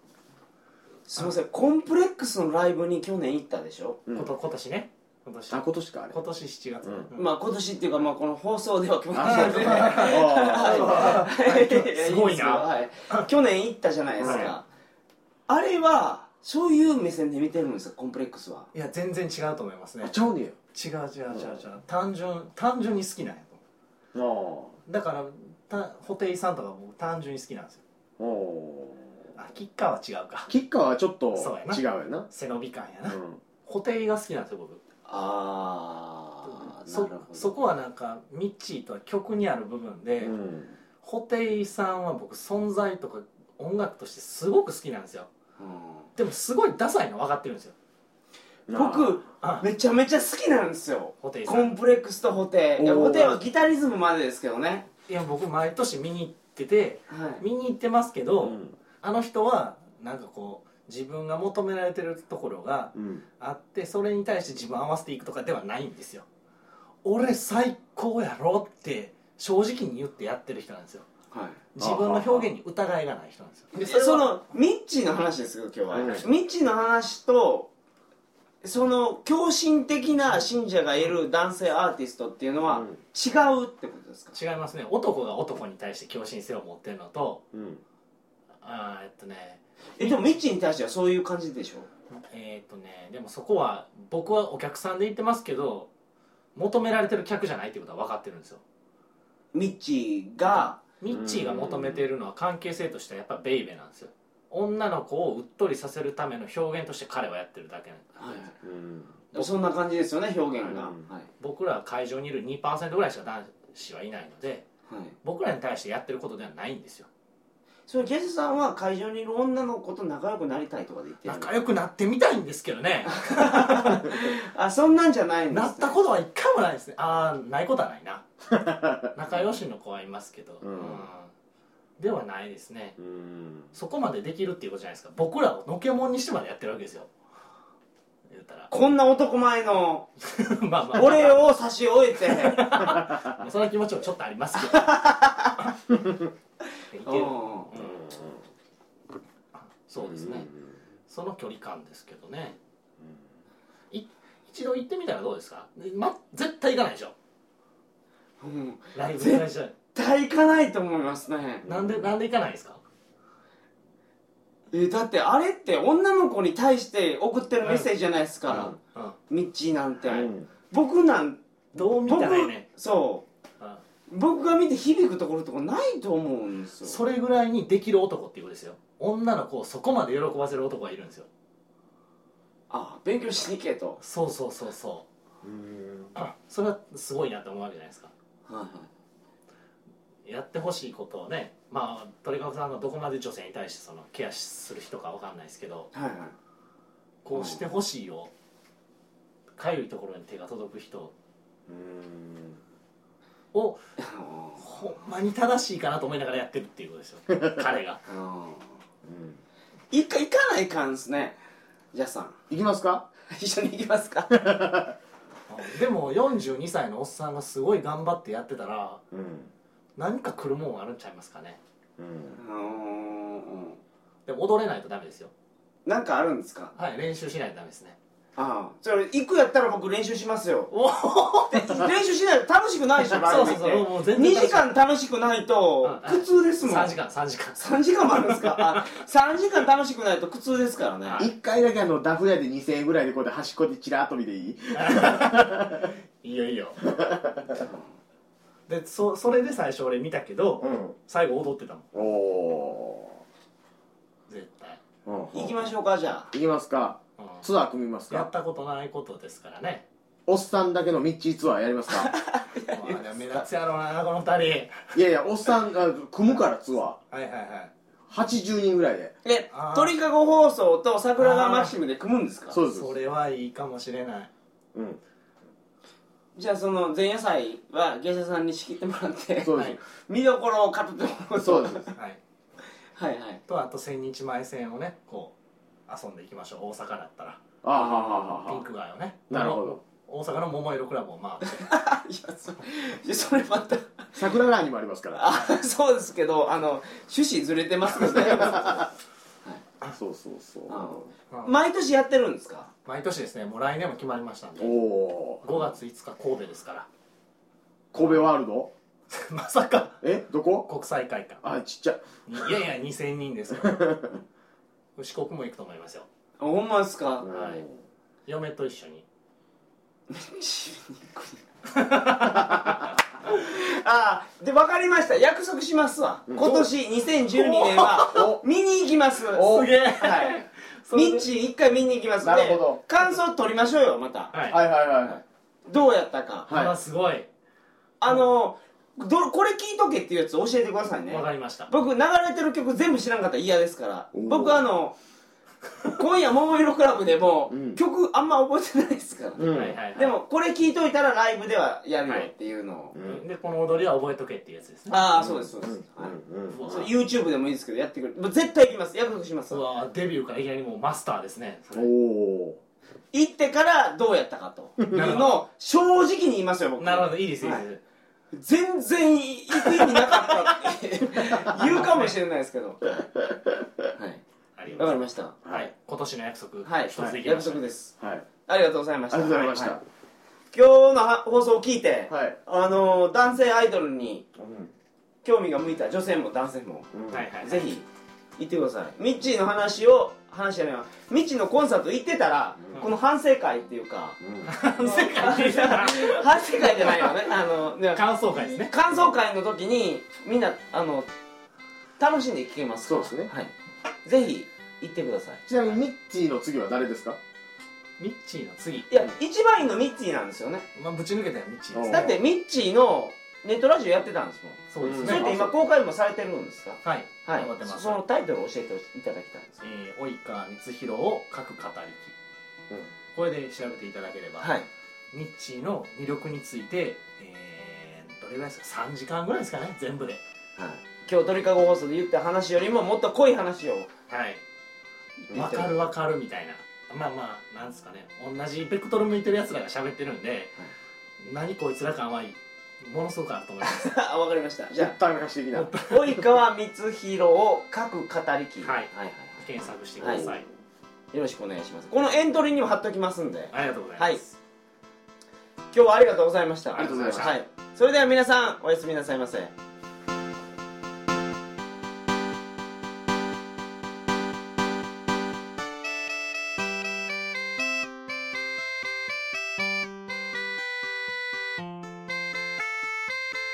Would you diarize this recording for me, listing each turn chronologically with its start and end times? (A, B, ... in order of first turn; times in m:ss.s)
0:01.1-0:04.0 A
0:04.1-0:07.3 B
0:05.5-0:06.2 C
0:06.8-0:07.1 C
0:07.2-0:14.6 A
0:09.1-0:11.3 C
0:09.2-0:13.3 B
0:14.2-0:14.5 C
0:14.2-0:14.5 B
0:15.5-0:18.7 A
0:18.7-0:20.2 B
0:20.0-0:20.6 C
0:20.7-0:23.6 B
0:21.3-0:21.6 C
0:24.2-0:24.8 C
0:24.9-0:27.8 B
0:28.2-0:29.1 C
0:29.4-0:30.5 B
0:30.5-0:32.3 C
0:31.3-0:34.8 B
0:33.1-0:33.4 C
0:35.1-0:37.6 A
0:36.9-0:40.4 B
0:40.2-0:40.7 C
0:41.0-0:45.3 B
0:45.6-0:46.1 A
0:46.2-0:47.8 B
0:48.7-0:49.2 C
0:48.7-0:54.9 A
0:49.4-0:49.7 B
0:51.2-0:51.8 B
0:52.8-0:53.4 C
0:55.1-1:06.3 B
0:57.1-0:57.4 A
0:58.4-0:58.8 C
1:03.0-1:03.2 C
1:07.0-1:11.1 B
1:11.3-1:11.6 A
1:11.8-1:14.4 B
1:11.8-1:12.5 C
1:13.7-1:17.7 A
1:15.9-1:16.3 B
1:15.9-1:16.2 C
1:18.6-1:24.4 A
1:22.7-1:23.0 C
1:24.3-1:27.4 B
1:27.5-1:27.8 C
1:28.6-1:30.2 B
1:30.0-1:31.9 A
1:32.3-1:35.9 B
1:36.6-1:38.6 B
1:39.5-1:40.8 A
1:41.0-1:48.4 B
1:41.1-1:42.1 C
1:48.2-1:48.5 A
1:48.6-1:49.2 C
1:49.3-1:51.3 A
1:50.7-1:51.0 C
1:51.4-1:54.7 B
1:54.9-1:55.2 A
1:55.2-1:57.1 B
1:57.9-2:01.5 A
2:01.2-2:04.2 B
2:03.2-2:06.0 A
2:05.5-2:08.2 B
2:08.5-2:09.5 C
2:09.2-2:11.3 B
2:10.6-2:11.0 C
2:12.0-2:13.0 B
2:13.0-2:13.7 C
2:13.7-2:17.1 B
2:18.3-2:18.7 B
2:18.7-2:20.1 A
2:20.2-2:21.4 B
2:20.9-2:22.8 A
2:22.3-2:25.7 B
2:24.8-2:25.5 A
2:26.9-2:28.0 B
2:27.0-2:27.7 A
2:27.8-2:28.4 C
2:29.6-2:30.5 B
2:30.0-2:30.6 C
2:31.1-2:32.6 B
2:33.9-2:37.1 B
2:38.4-2:41.6 A
2:39.0-2:39.7 B
2:41.6-2:42.1 C
2:41.7-2:42.8 B
2:44.7-2:48.7 A
2:48.5-2:49.2 B
2:49.3-2:51.4 A
2:50.1-2:50.5 C
2:51.7-2:52.7 B
2:52.0-2:53.3 A
2:54.1-2:57.0 A
2:56.8-3:01.3 B
3:02.7-3:04.0 A
3:04.0-3:05.1 B
3:05.4-3:06.1 C
3:06.2-3:08.1 B
3:08.5-3:08.9 A
3:10.2-3:15.9 B
3:15.9-3:16.4 A
3:17.2-3:18.3 B
3:17.3-3:17.6 A
3:19.6-3:21.1 B
3:21.7-3:22.6 C
3:23.5-3:23.8 B
3:24.0-3:24.7 A
3:24.6-3:28.0 B
3:28.1-3:28.8 A
3:29.0-3:29.4 C
3:29.9-3:31.4 A
3:31.9-3:32.4 A
3:32.5-3:33.1 C
3:33.3-3:34.4 A
3:34.3-3:35.0 C
3:35.5-3:39.0 B
3:39.1-3:39.5 C
3:40.0-3:41.6 B
3:42.0-3:42.4 C
3:42.3-3:43.8 A
3:44.3-3:45.3 B
3:45.9-3:46.7 A
3:46.8-3:48.0 B
3:48.4-3:50.7 A
3:50.7-3:51.9 B
3:51.5-3:57.0 A
3:53.0-3:54.7 B
3:55.8-3:58.9 B
3:57.6-4:01.3 A
4:01.0-4:01.3 B
4:01.2-4:05.9 C
4:04.7-4:06.8 B
4:06.8-4:07.6 C
4:08.7-4:11.9 B
4:10.6-4:11.0 C
4:11.9-4:13.2 C
4:14.3-4:14.8 B
4:15.1-4:15.6 C
4:15.3-4:16.3 A
4:16.3-4:18.3 C
4:17.2-4:17.5 B
4:18.1-4:19.9 B
4:20.3-4:22.1 C
4:22.0-4:23.0 A
4:22.7-4:24.9 B
4:24.9-4:27.0 C
4:27.1-4:27.7 B
4:28.1-4:29.1 C
4:29.2-4:32.6 A
4:29.5-4:29.9 B
4:31.2-4:31.7 B
4:32.5-4:32.9 C
4:32.7-4:34.3 B
4:34.8-4:35.0 C
4:36.4-4:41.9 A
4:39.4-4:39.8 C
4:41.4-4:41.9 C
4:43.0-4:43.4 A
4:43.5-4:45.4 B
4:45.9-4:47.4 B
4:47.6-4:48.6 C
4:48.4-4:51.7 B
4:49.3-4:49.8 C
4:51.4-4:54.1 A
4:54.2-4:55.2 C
4:55.2-4:58.8 A
4:57.9-4:58.9 C
4:59.9-5:01.1 C
5:00.7-5:02.7 A
5:01.3-5:01.6 B
5:02.8-5:04.8 B
5:04.6-5:05.7 C
5:05.4-5:06.9 B
5:07.9-5:08.7 C
5:08.0-5:08.3 B
5:09.1-5:10.0 B
5:10.0-5:10.7 C
5:10.7-5:11.4 B
5:11.4-5:12.5 C
5:12.3-5:14.1 B
5:13.6-5:14.2 C
5:15.0-5:16.1 B
5:16.4-5:17.3 A
5:17.2-5:17.8 C
5:17.3-5:17.6 B
5:18.3-5:19.0 B
5:20.1-5:21.4 A
5:21.8-5:22.9 B
5:23.3-5:34.4 A
5:26.3-5:26.7 C
5:27.5-5:28.3 B
5:28.0-5:28.4 C
5:29.3-5:29.7 C
5:29.3-5:31.3 B
5:32.2-5:32.8 C
5:34.3-5:34.6 B
5:34.5-5:35.2 C
5:35.1-5:36.5 A
5:36.5-5:36.7 C
5:36.5-5:37.3 B
5:38.0-5:45.0 A
5:41.1-5:41.7 B
5:44.1-5:44.7 C
5:45.9-5:53.0 A
5:47.5-5:47.8 C
5:49.4-5:49.8 C
5:49.5-5:50.2 B
5:52.9-5:53.2 C
5:53.0-5:55.1 B
5:54.9-5:59.6 A
5:55.2-5:56.9 C
5:56.5-5:56.9 B
5:59.5-6:01.9 B
6:01.7-6:02.6 C
6:03.1-6:07.6 A
6:04.9-6:05.5 B
6:06.8-6:07.8 B
6:08.3-6:13.1 A
6:11.6-6:12.2 B
6:13.2-6:13.7 C
6:14.0-6:14.2 A
6:14.6-6:17.6 B
6:14.8-6:15.4 A
6:15.4-6:15.7 C
6:16.6-6:17.9 A
6:18.0-6:18.3 C
6:18.5-6:19.8 A
6:19.1-6:19.8 C
6:20.5-6:24.3 A
6:22.1-6:22.4 C
6:24.4-6:24.7 C
6:25.2-6:27.9 A
6:26.9-6:27.3 C
6:27.1-6:27.7 B
6:28.4-6:34.2 A
6:34.2-6:34.5 C
6:34.5-6:37.3 B
6:34.8-6:41.1 A
6:37.9-6:38.7 B
6:42.0-6:43.5 A
6:42.8-6:43.3 C
6:44.0-6:45.4 A
6:45.5-6:47.2 C
6:48.0-6:48.9 B
6:48.9-6:50.7 A
6:50.8-6:52.2 B
6:51.7-6:52.2 C
6:51.9-6:59.6 A
6:54.7-6:55.4 B
6:54.8-6:55.5 C
6:56.8-6:58.0 B
6:59.6-7:02.1 B
7:03.1-7:04.5 B
7:04.4-7:04.7 A
7:05.1-7:10.2 B
7:10.6-7:13.9 A
7:14.1-7:14.4 B
7:15.3-7:20.5 B
7:15.3-7:15.8 A
7:21.2-7:24.0 B
7:23.6-7:25.0 A
7:24.8-7:25.7 C
7:25.5-7:26.2 B
7:25.9-7:29.4 A
7:28.6-7:30.4 B
7:30.0-7:30.3 A
7:30.0-7:30.4 C
7:31.1-7:34.2 A
7:33.5-7:34.4 B
7:35.7-7:39.5 A
7:36.7-7:37.4 B
7:36.8-7:37.4 C